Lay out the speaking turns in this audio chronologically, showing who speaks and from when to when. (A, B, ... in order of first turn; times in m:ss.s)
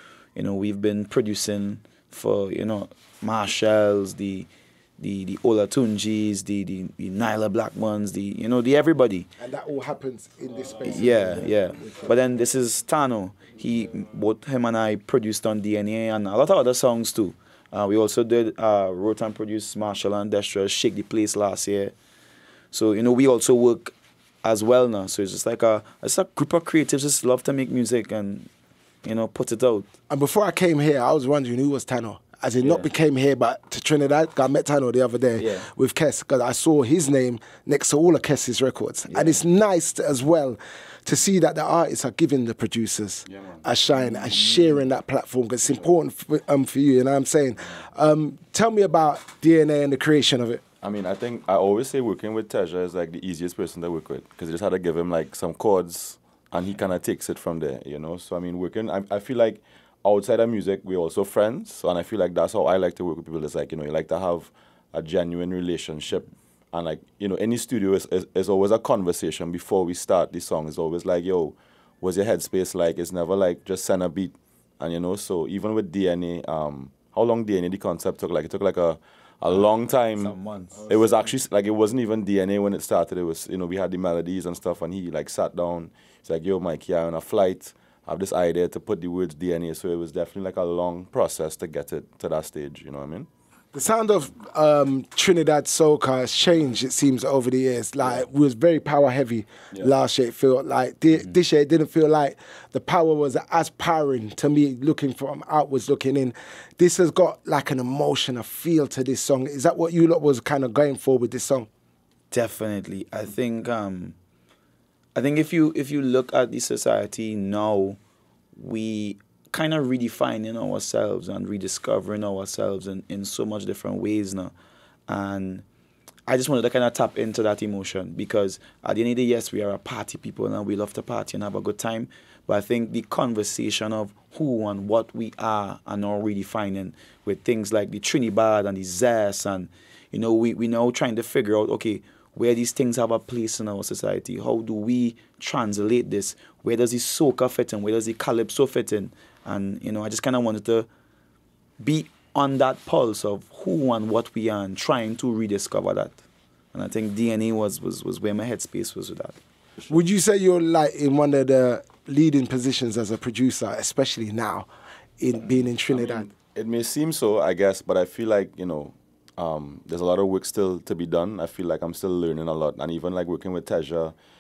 0:00.4-0:09.3 A
0:09.4-0:11.6 B
0:10.8-0:21.9 A
0:22.7-0:28.5 A
0:29.0-0:29.9 A
0:30.1-0:50.6 B
0:32.6-0:32.9 A
0:35.4-0:35.7 A
0:39.1-0:39.4 A
0:43.3-0:43.6 C
0:50.8-1:33.3 C
1:20.2-1:20.9 A
1:33.7-1:51.7 B
1:52.3-1:54.2 A
1:55.2-1:58.0 A
1:58.6-2:04.5 A
2:05.1-2:05.6 A
2:06.3-2:30.9 A
2:31.8-2:36.2 A
2:36.7-2:39.4 A
2:39.9-2:44.7 B
2:45.2-2:46.3 B
2:45.9-2:54.1 C